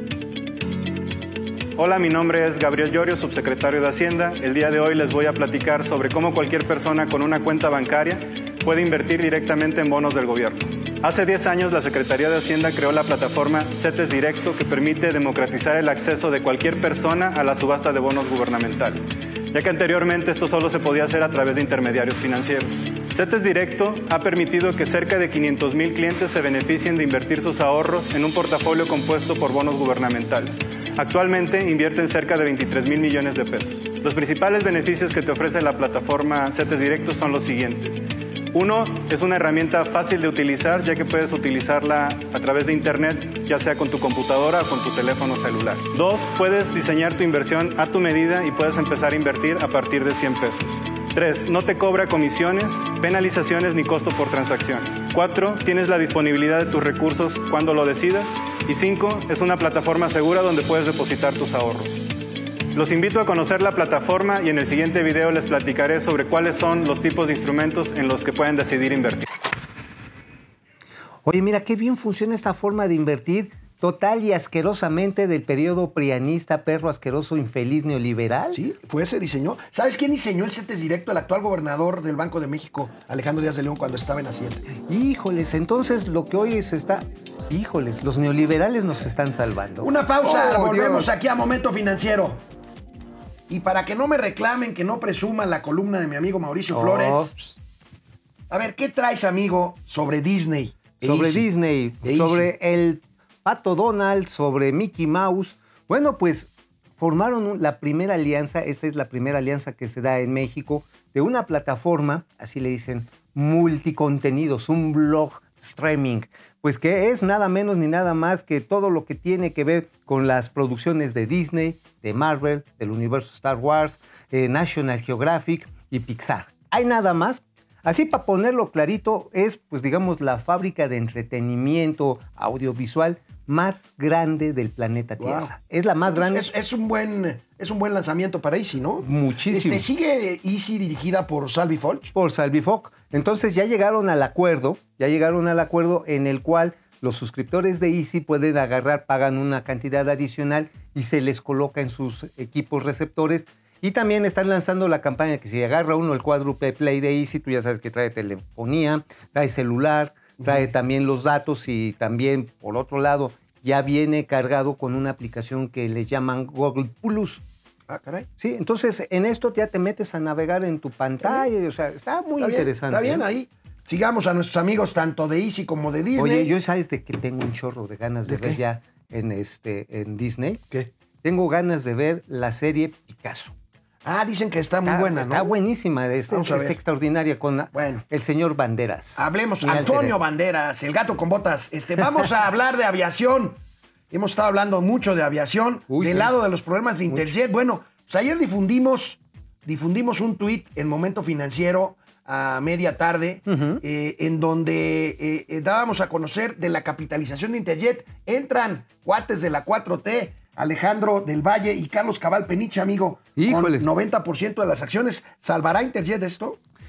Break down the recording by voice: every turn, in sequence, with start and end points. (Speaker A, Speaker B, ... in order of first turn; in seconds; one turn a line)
Speaker A: 1.8-62.1
Speaker A: 62.7-69.3
Speaker B: 71.2-78.6
Speaker C: 78.5-84.6
Speaker B: 84.7-91.1
Speaker C: 89.8-92.4
Speaker C: 93.5-97.3
Speaker B: 96.7-97.5
Speaker C: 98.5-101.5
Speaker B: 101.0-136.5
Speaker C: 102.0-102.5
Speaker C: 135.2-135.5
Speaker C: 136.1-142.1
Speaker B: 139.0-139.8
Speaker B: 142.1-167.4
Speaker C: 167.9-168.3
Speaker B: 168.4-173.2
Speaker C: 172.4-176.5
Speaker B: 176.2-180.6
Speaker C: 178.2-178.6
Speaker B: 181.2-183.5
Speaker C: 184.0-185.5
Speaker B: 184.8-190.2
Speaker C: 186.3-186.8
Speaker C: 187.7-188.0
Speaker C: 189.2-193.6
Speaker C: 194.1-216.6
Speaker B: 195.9-196.3
Speaker B: 203.5-203.8
Speaker B: 213.4-213.8